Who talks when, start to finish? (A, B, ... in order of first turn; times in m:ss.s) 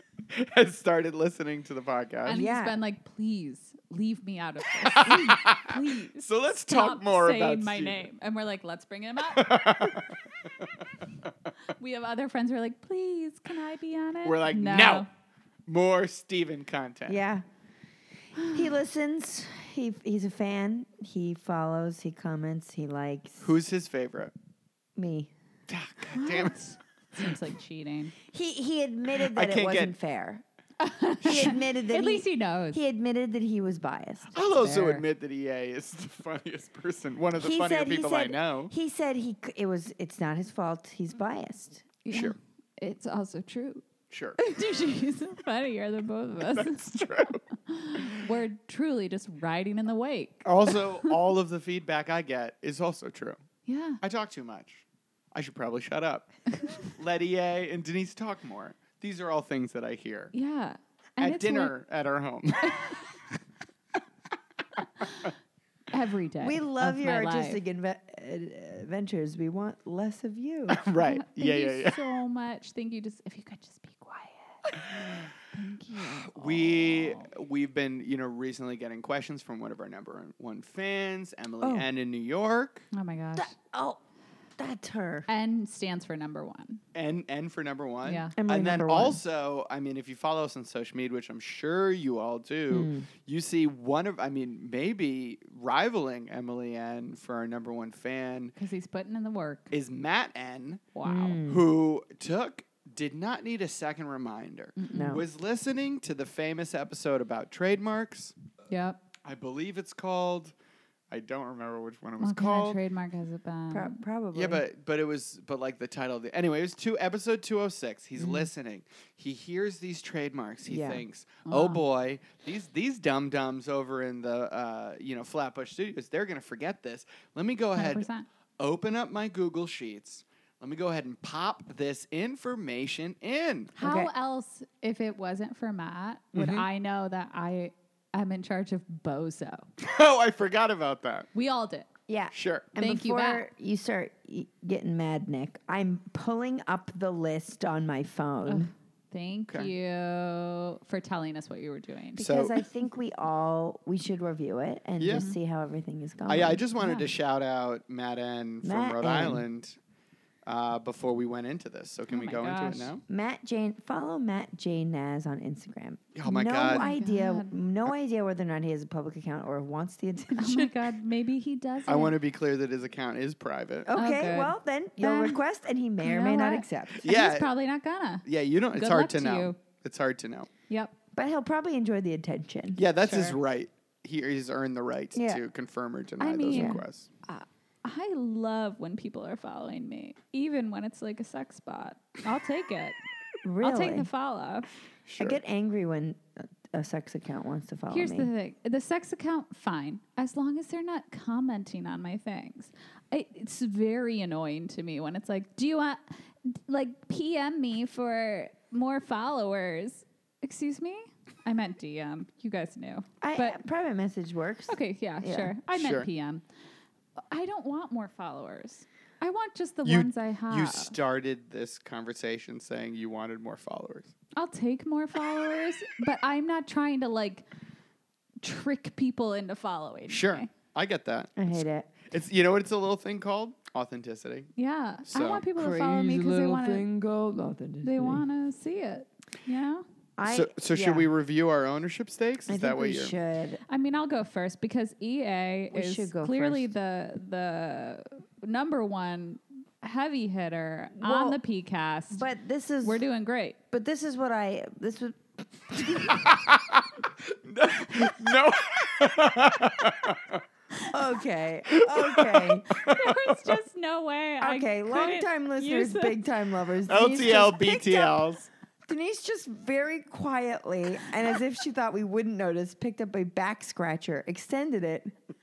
0:00.3-0:02.4 A
0:02.3-0:10.0 B
0:02.3-0:02.8 C
0:04.8-0:08.1 A
0:09.3-0:10.1 A
0:11.7-0:15.1 B
0:14.2-0:15.1 A
0:15.7-0:17.2 A
0:17.1-0:17.5 C
0:18.4-0:18.6 B
0:18.4-0:23.6 C
0:23.4-0:24.3 A
0:25.0-0:25.3 C
0:25.7-0:26.6 A
0:26.1-0:28.2 B
0:28.3-0:30.4 C
0:29.2-0:30.0 A
0:30.8-0:32.8 B
0:31.2-0:35.0 C
0:34.4-0:38.7 A
0:34.5-0:35.0 B
0:37.4-0:42.0 C
0:42.0-0:43.9 B
0:42.1-0:42.4 A
0:44.1-0:44.4 A
0:44.4-0:51.2 B
0:46.5-0:47.4 A
0:50.4-0:53.4 A
0:53.7-0:54.0 B
0:54.0-1:00.3 A
1:00.3-1:01.7 B
1:01.2-1:03.0 A
1:02.6-1:03.0 B
1:05.0-1:05.3 B
1:05.9-1:07.6 B
1:06.4-1:10.9 C
1:10.7-1:12.0 A
1:11.0-1:17.3 B
1:16.0-1:22.9 A
1:21.6-1:21.9 C
1:22.9-1:23.5 B
1:23.4-1:24.0 C
1:24.6-1:25.3 C
1:25.3-1:26.8 B
1:27.0-1:38.5 A
1:28.0-1:28.4 B
1:28.4-1:29.2 C
1:32.7-1:33.1 C
1:38.6-1:39.7 B
1:39.7-1:40.9 A
1:40.9-1:41.4 B
1:41.0-1:41.6 C
1:41.5-1:48.3 A
1:44.8-1:45.2 B
1:44.9-1:45.2 C
1:48.7-1:49.0 B
1:49.2-1:50.5 A
1:51.1-1:52.8 A
1:52.2-1:54.0 B
1:53.7-1:54.6 C
1:54.3-2:08.1 A
1:58.2-1:58.5 C
2:00.7-2:01.0 C
2:01.5-2:01.8 B
2:07.8-2:08.3 B
2:08.6-2:13.7 A
2:13.8-2:19.7 B
2:13.8-2:14.1 C
2:16.3-2:16.7 A
2:19.8-2:21.3 A
2:21.3-2:21.9 B
2:22.1-2:28.7 C
2:22.3-2:22.7 A
2:22.8-2:23.5 B
2:28.5-2:32.3 B
2:32.2-2:36.6 C
2:32.2-2:32.6 A
2:35.0-2:35.3 A
2:36.3-2:39.8 A
2:36.8-2:37.1 B
2:38.6-2:39.4 C
2:40.5-2:43.0 A
2:42.1-2:42.9 B
2:43.1-2:50.7 C
2:46.2-2:46.9 A
2:46.7-2:47.6 B
2:50.4-2:52.2 B
2:51.9-2:53.9 A
2:53.8-2:57.0 C
2:54.0-2:55.4 B
2:56.0-2:59.6 B
2:57.0-2:57.5 A
2:58.2-3:00.5 A
3:00.7-3:01.0 B
3:01.2-3:02.8 C
3:02.8-3:07.1 A
3:03.0-3:03.4 B
3:05.2-3:05.4 C
3:06.2-3:13.0 B
3:06.5-3:06.8 C
3:13.4-3:14.1 C
3:13.6-3:14.8 B
3:15.0-3:15.4 A
3:15.2-3:18.3 C
3:17.9-3:33.6 B
3:33.2-3:35.5 C
3:34.7-3:36.4 B
3:35.7-3:36.1 A
3:37.3-3:41.0 B
3:39.8-3:44.1 A
3:44.4-3:47.4 B
3:48.4-3:50.5 B
3:50.1-3:54.5 A
3:51.4-3:51.9 C
3:54.6-3:56.9 B
3:55.1-3:55.5 A
3:55.5-3:58.3 C
3:57.8-3:59.8 B
4:00.2-4:01.1 C
4:00.3-4:03.2 A
4:02.5-4:03.6 C
4:03.7-4:12.2 B
4:05.7-4:06.7 C
4:11.0-4:11.4 C
4:12.1-4:13.0 C
4:12.8-4:13.6 B
4:13.7-4:16.3 C
4:16.1-4:20.4 A
4:20.9-4:22.7 C
4:21.7-4:23.6 A
4:22.8-4:26.2 B
4:24.4-4:28.2 C
4:26.9-4:28.5 A
4:28.9-4:35.1 C